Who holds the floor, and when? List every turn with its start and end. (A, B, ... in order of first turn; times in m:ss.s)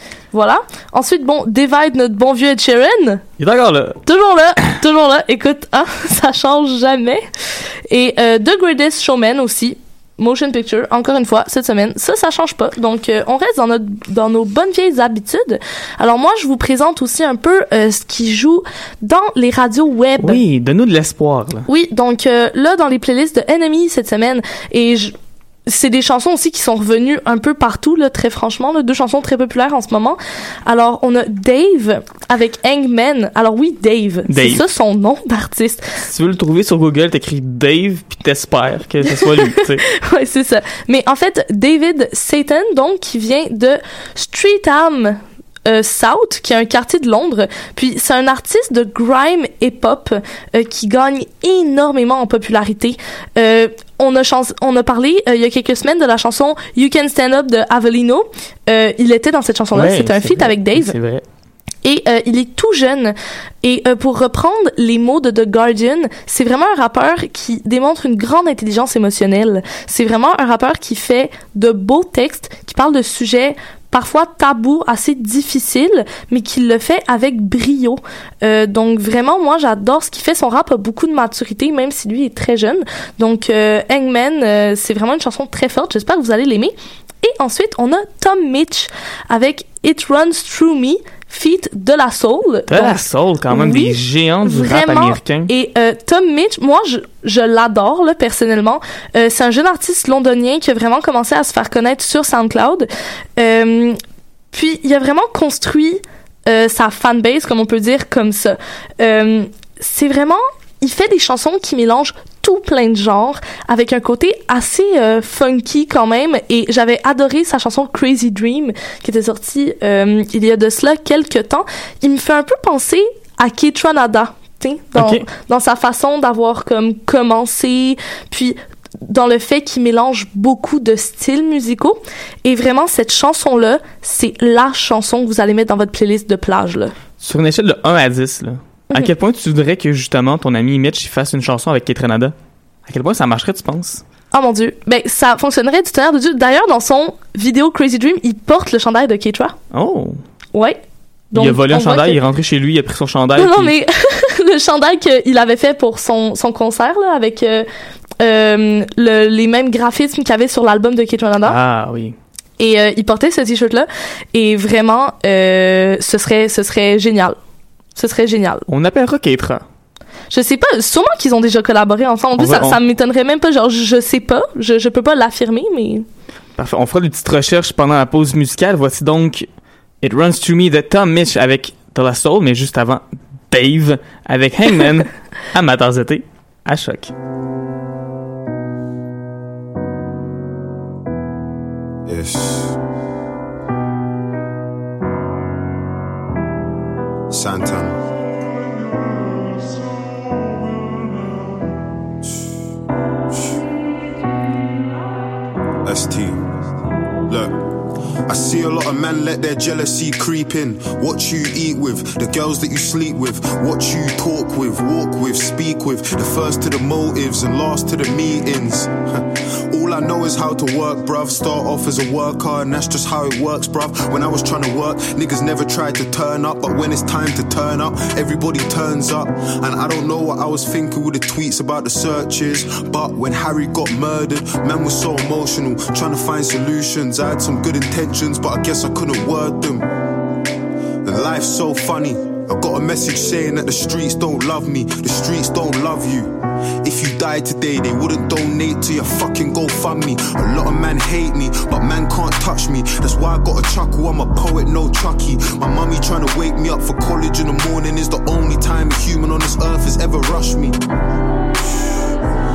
0:00.3-0:03.2 A
0:03.4-0:04.0 B
0:04.1-0:07.2 A
0:07.9-0:20.4 A
0:20.2-0:21.7 B
0:21.7-0:25.2 A
0:25.7-0:36.0 A
0:34.3-0:34.6 B
0:36.1-0:39.8 B
0:39.1-1:01.0 A
0:59.7-1:01.2 B
1:01.8-1:33.0 A
1:32.7-1:35.5 B
1:33.5-1:44.0 A
1:44.5-2:17.0 A
2:05.0-2:05.3 B
2:17.2-2:22.4 B
2:22.9-2:24.0 B
2:24.3-2:29.6 A
2:29.7-2:30.2 B
2:31.3-2:32.2 A
2:31.3-2:33.7 B
2:33.4-2:37.7 A
2:38.2-2:41.6 A
2:41.4-2:42.2 B
2:42.6-2:47.4 A
2:48.0-2:48.7 A
2:48.7-2:49.6 B
2:50.3-2:56.1 A
2:52.4-2:52.8 B
2:56.6-2:59.5 B
3:00.0-3:07.1 B
3:12.1-3:12.8 C
3:17.3-3:18.0 C
3:25.8-3:26.5 C
3:27.3-3:27.6 C
3:28.3-3:59.9 C
4:01.0-4:20.8 C
4:21.6-4:22.0 C